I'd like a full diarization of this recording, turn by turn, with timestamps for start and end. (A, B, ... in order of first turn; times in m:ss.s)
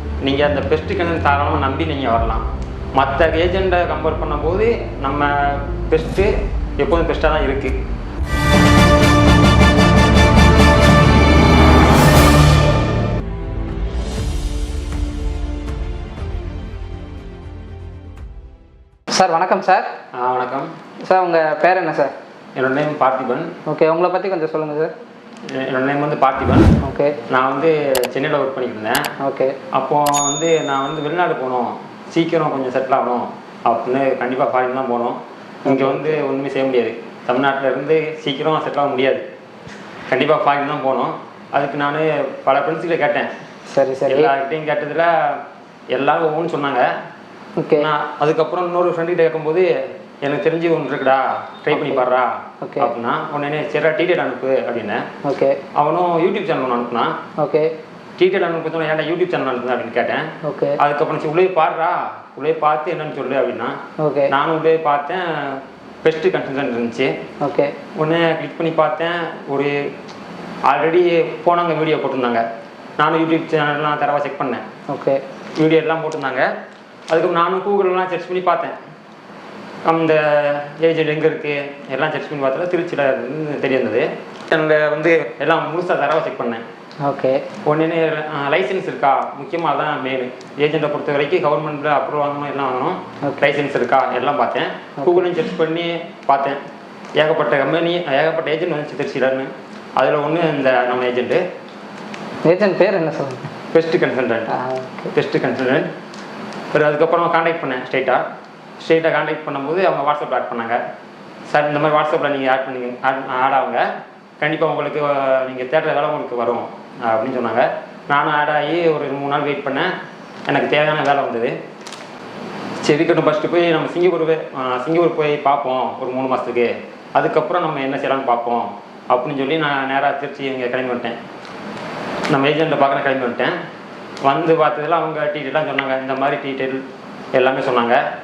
0:00.2-0:07.8 A
0:19.1-0:19.9 B
0:20.1-0:20.7 A
0:21.0-0:22.1 B
0:22.6-0:23.5 A
0:23.6-0:24.9 B
0:25.5-0:26.7 A
0:26.8-0:27.2 B
0:27.3-0:29.1 A
0:29.2-0:29.6 B
0:29.7-0:39.2 A
0:35.6-0:36.2 B
0:40.1-0:43.3 A
0:43.7-0:44.3 B
0:44.1-0:45.4 A
0:45.9-0:46.9 A
0:47.6-0:47.9 B
0:47.8-0:49.7 A
0:50.2-0:55.1 A
0:51.7-0:52.0 B
0:52.6-0:52.9 B
0:55.2-0:55.6 B
0:55.7-0:57.2 A
0:57.4-0:57.7 B
0:58.2-1:03.8 A
1:00.4-1:00.8 B
1:04.0-1:04.3 B
1:04.3-1:07.1 A
1:07.4-1:07.7 B
1:08.0-1:09.9 A
1:10.7-1:12.4 A
1:13.0-1:14.6 A
1:14.9-1:15.2 B
1:15.6-1:16.5 A
1:17.1-1:18.8 A
1:19.8-1:26.6 A
1:27.0-1:27.4 B
1:27.6-1:36.6 A
1:35.0-1:35.3 B
1:37.2-1:41.4 A
1:42.4-1:43.5 B
1:43.7-1:44.5 A
1:44.5-1:45.1 B
1:45.1-1:45.9 A
1:46.7-1:48.3 A
1:48.8-1:50.8 A
1:51.5-1:53.9 A
1:54.4-1:59.9 A
2:00.5-2:01.6 A
2:02.8-2:11.2 A
2:12.3-2:13.6 A
2:14.2-2:16.8 A
2:17.3-2:18.0 A